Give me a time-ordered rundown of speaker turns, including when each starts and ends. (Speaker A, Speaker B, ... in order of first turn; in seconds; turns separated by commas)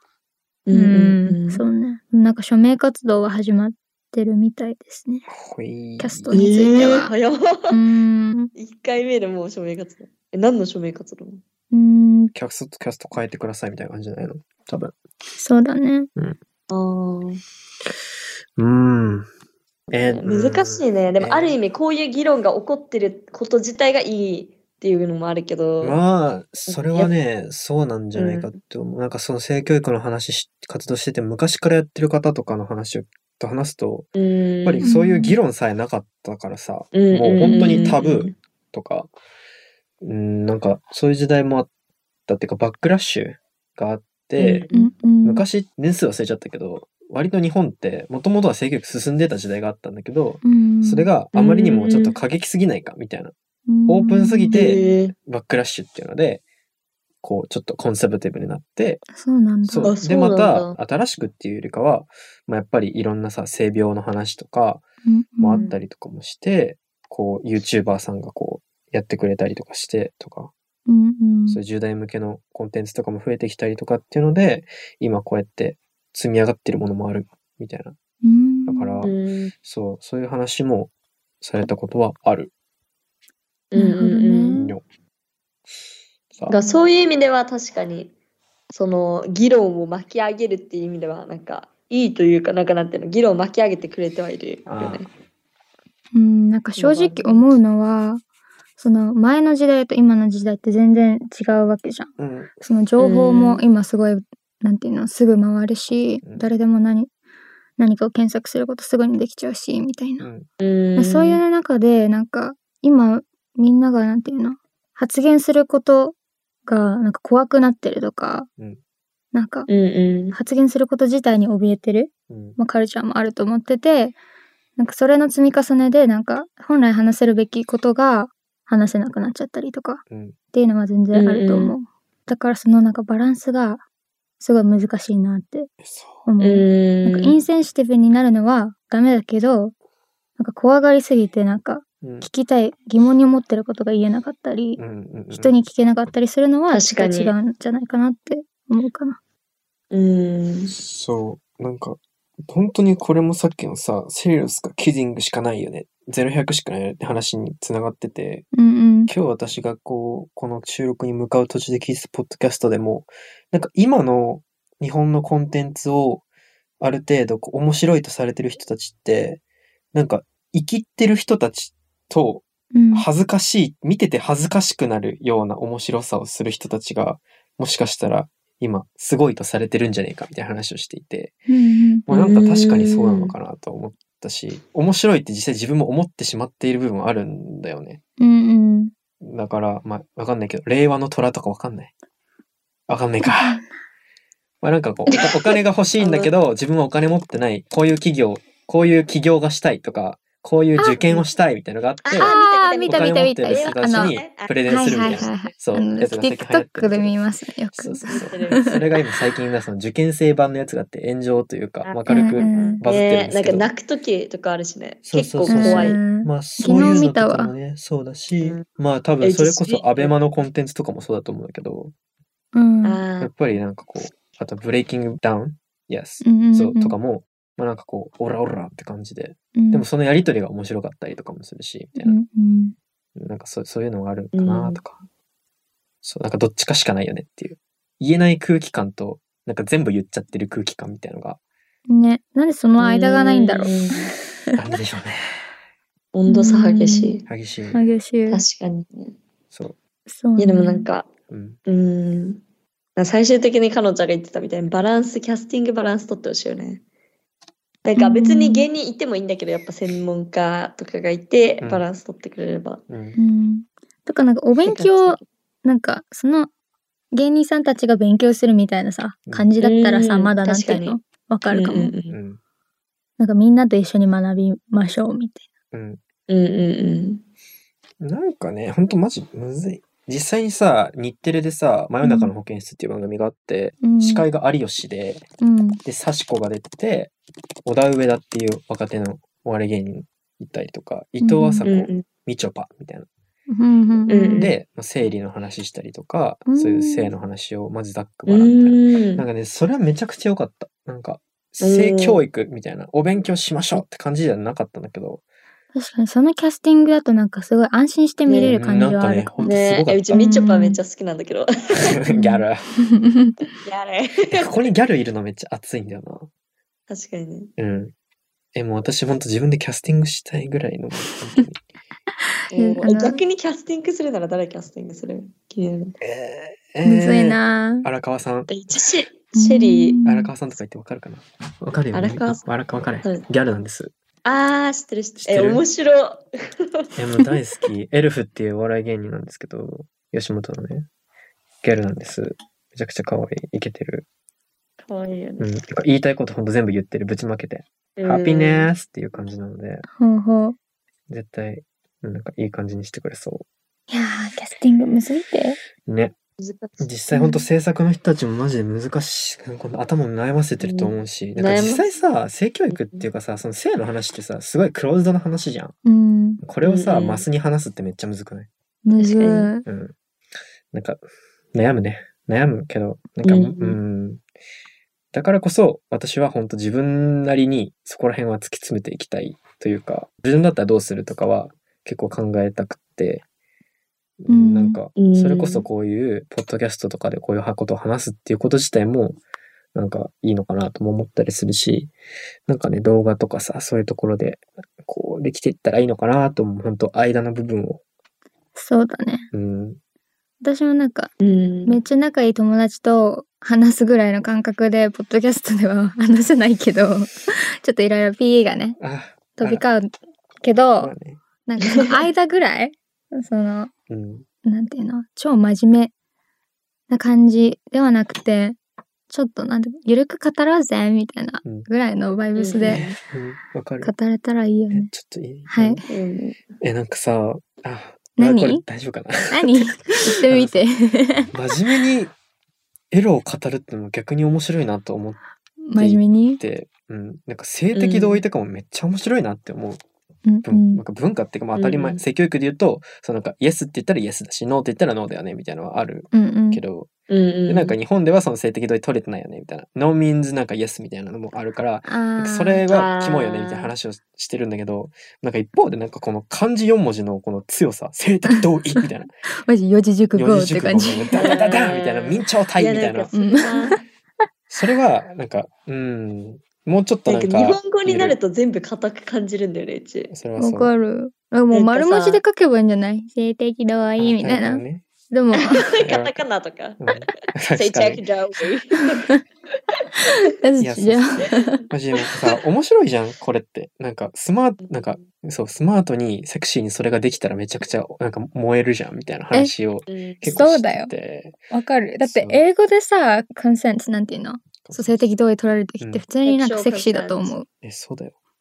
Speaker A: 0.7-1.6, Speaker B: 0.7-5.3, Speaker C: 5.3-6.4, Speaker B: 6.0-7.1, Speaker A: 6.3-7.8, Speaker B: 7.7-8.5, Speaker A: 8.5-11.4, Speaker B: 11.7-12.3, Speaker C: 12.3-14.9, Speaker B: 15.4-16.1, Speaker A: 16.7-17.4, Speaker C: 18.6-19.3, Speaker A: 19.9-26.0, Speaker C: 19.9-21.6, Speaker C: 25.8-34.1, Speaker A: 26.7-27.1, Speaker A: 28.1-28.5, Speaker A: 34.1-34.9, Speaker C: 34.6-39.1, Speaker B: 34.8-35.4, Speaker A: 36.9-38.4, Speaker C: 40.0-41.7, Speaker C: 42.3-44.6, Speaker A: 44.4-44.9, Speaker B: 44.7-45.4, Speaker C: 45.2-53.3, Speaker B: 50.4-51.1, Speaker A: 51.3-52.1, Speaker B: 53.7-54.9, Speaker C: 53.9-56.4, Speaker A: 54.5-55.1, Speaker C: 57.2-59.0, Speaker B: 59.1-60.0, Speaker C: 59.6-64.8, Speaker A: 59.8-60.8, Speaker B: 65.0-65.7, Speaker C: 65.4-70.5, Speaker B: 70.8-71.6, Speaker C: 71.5-78.0, Speaker B: 78.2-79.1, Speaker C: 78.7-82.5, Speaker A: 79.0-79.5, Speaker A: 83.7-84.7, Speaker B: 83.8-84.6, Speaker C: 84.5-84.8, Speaker B: 86.5-86.8, Speaker A: 86.5-88.1, Speaker A: 88.7-95.1, Speaker C: 94.7-95.0, Speaker B: 96.1-98.2, Speaker A: 96.8-97.5, Speaker B: 98.8-107.1, Speaker C: 102.2-102.6, Speaker A: 103.0-103.6, Speaker C: 106.2-106.5, Speaker B: 107.8-110.3, Speaker C: 110.2-110.5, Speaker A: 110.6-111.4, Speaker B: 111.0-118.5, Speaker B: 119.3-119.7, Speaker A: 119.7-120.4, Speaker B: 120.3-124.2, Speaker C: 122.3-122.6, Speaker B: 124.8-130.0, Speaker C: 130.1-130.3, Speaker B: 130.5-133.8, Speaker A: 131.1-131.7, Speaker B: 134.4-135.7, Speaker C: 135.8-136.2, Speaker B: 136.2-139.7, Speaker A: 136.4-137.4, Speaker B: 140.4-149.2, Speaker C: 142.0-142.3, Speaker C: 144.8-145.6, Speaker A: 146.7-147.3, Speaker A: 149.9-150.7, Speaker C: 150.7-158.5, Speaker B: 158.5-159.1, Speaker C: 159.1-166.2, Speaker C: 166.8-169.4, Speaker C: 169.9-181.4, Speaker B: 172.7-173.1, Speaker B: 181.5-182.0, Speaker C: 182.1-188.0, Speaker A: 182.1-183.3, Speaker B: 188.2-188.9, Speaker C: 189.2-191.9, Speaker C: 192.9-193.6, Speaker B: 193.2-193.7, Speaker C: 194.6-207.2, Speaker A: 195.1-196.3, Speaker A: 200.9-201.2, Speaker A: 202.0-205.5, Speaker B: 202.2-208.6, Speaker C: 207.7-213.7, Speaker A: 208.1-208.8, Speaker A: 211.8-216.0, Speaker B: 212.1-212.8, Speaker C: 215.0-221.9, Speaker B: 215.4-217.5, Speaker A: 218.4-218.7, Speaker A: 219.2-220.1, Speaker B: 222.5-223.0, Speaker A: 222.8-223.3, Speaker C: 223.2-232.2, Speaker B: 226.2-227.0, Speaker B: 229.5-229.8, Speaker B: 232.0-232.7, Speaker C: 233.1-235.0, Speaker A: 234.3-234.8, Speaker C: 236.0-241.4, Speaker B: 241.9-244.6, Speaker A: 242.8-244.1, Speaker C: 244.6-245.4, Speaker A: 246.1-247.2, Speaker B: 246.3-247.1, Speaker C: 247.3-247.8, Speaker B: 247.7-248.4, Speaker A: 248.3-249.1, Speaker B: 250.1-250.9, Speaker A: 250.4-251.1, Speaker C: 251.3-251.6, Speaker A: 251.7-252.4, Speaker A: 252.9-256.8, Speaker A: 257.8-262.8, Speaker B: 258.0-258.7, Speaker C: 262.9-263.2, Speaker B: 263.1-266.5, Speaker A: 264.6-265.2, Speaker B: 267.1-271.9, Speaker A: 269.6-270.9, Speaker A: 271.5-272.1, Speaker C: 272.1-272.4, Speaker B: 273.2-275.4, Speaker C: 275.7-276.0, Speaker A: 276.3-277.2, Speaker C: 278.0-285.2, Speaker B: 282.0-282.3, Speaker B: 283.8-284.2, Speaker B: 285.4-285.8, Speaker C: 285.8-287.1, Speaker C: 287.6-293.1, Speaker B: 291.2-291.7, Speaker A: 291.6-292.0, Speaker B: 293.5-294.5, Speaker A: 294.1-294.5, Speaker C: 294.4-305.2, Speaker B: 296.5-297.1, Speaker A: 298.3-299.2, Speaker A: 301.6-302.2, Speaker B: 305.7-309.5, Speaker A: 308.3-308.5, Speaker C: 308.4-310.3, Speaker A: 309.4-312.0, Speaker B: 310.1-310.8, Speaker C: 311.8-312.6, Speaker B: 312.1-313.4, Speaker A: 313.6-314.6, Speaker C: 314.3-316.3, Speaker A: 316.9-317.5, Speaker C: 317.6-317.9, Speaker C: 318.5-321.6, Speaker B: 322.5-323.2, Speaker A: 322.5-325.9, Speaker C: 326.0-328.6, Speaker B: 326.8-327.9, Speaker A: 328.5-330.0, Speaker B: 329.4-330.3, Speaker C: 330.0-333.9, Speaker A: 331.9-332.4, Speaker A: 333.0-333.3, Speaker A: 334.2-336.9, Speaker C: 335.2-335.6, Speaker C: 336.9-340.9, Speaker C: 341.6-344.1, Speaker A: 344.8-345.5, Speaker C: 345.4-349.8, Speaker A: 348.0-348.7, Speaker B: 350.0-350.6, Speaker C: 351.1-353.4, Speaker B: 353.9-355.6, Speaker C: 355.8-356.1, Speaker A: 356.4-356.9, Speaker C: 356.8-365.7, Speaker B: 357.1-357.5, Speaker A: 360.6-361.8, Speaker A: 362.7-363.0, Speaker B: 365.9-366.4, Speaker C: 366.4-368.5, Speaker A: 366.6-367.2, Speaker B: 368.8-369.6, Speaker A: 368.9-369.5, Speaker C: 369.6-369.9, Speaker C: 370.7-371.0, Speaker C: 371.5-374.2, Speaker A: 373.2-373.8, Speaker C: 375.1-383.2, Speaker C: 384.2-389.2, Speaker B: 384.3-384.8, Speaker A: 385.0-385.6, Speaker C: 389.7-391.9, Speaker C: 392.5-397.8, Speaker B: 398.6-399.3, Speaker C: 399.3-399.8, Speaker B: 400.4-401.1, Speaker A: 401.2-401.8, Speaker B: 401.6-408.8, Speaker C: 408.8-409.6, Speaker B: 409.4-409.9, Speaker B: 410.4-410.9, Speaker C: 410.8-411.2, Speaker B: 411.4-413.7, Speaker C: 413.9-414.2, Speaker B: 414.4-415.9, Speaker B: 416.9-418.6, Speaker B: 419.1-422.9, Speaker A: 422.4-423.0, Speaker C: 422.6-423.9, Speaker B: 423.8-424.9, Speaker C: 424.7-425.8, Speaker B: 425.5-425.9, Speaker A: 425.9-426.4, Speaker C: 426.6-430.6, Speaker B: 428.2-428.6, Speaker B: 429.3-431.3, Speaker C: 431.3-432.1, Speaker C: 432.9-435.2, Speaker B: 435.6-436.4, Speaker C: 435.8-439.8, Speaker A: 437.7-438.2, Speaker B: 440.2-440.8, Speaker C: 440.4-446.9, Speaker A: 441.5-442.0, Speaker B: 446.1-446.6, Speaker A: 447.1-447.8, Speaker C: 447.5-459.1, Speaker B: 451.8-452.6, Speaker A: 452.7-453.7, Speaker B: 458.3-458.8, Speaker B: 459.4-461.4, Speaker C: 460.1-463.1, Speaker A: 461.1-463.8, Speaker B: 463.1-463.7, Speaker C: 464.5-468.2, Speaker A: 467.1-470.1, Speaker C: 470.1-470.7, Speaker B: 470.4-475.8, Speaker A: 471.5-472.2, Speaker C: 474.0-474.8, Speaker A: 475.4-479.1, Speaker C: 475.8-476.2, Speaker C: 476.8-478.0, Speaker B: 478.8-479.2, Speaker B: 480.0-481.6, Speaker C: 480.6-491.3, Speaker A: 484.6-485.1, Speaker A: 489.9-490.3, Speaker B: 490.2-490.9, Speaker B: 491.5-497.5, Speaker C: 492.0-492.4, Speaker A: 496.2-497.4, Speaker C: 497.6-498.1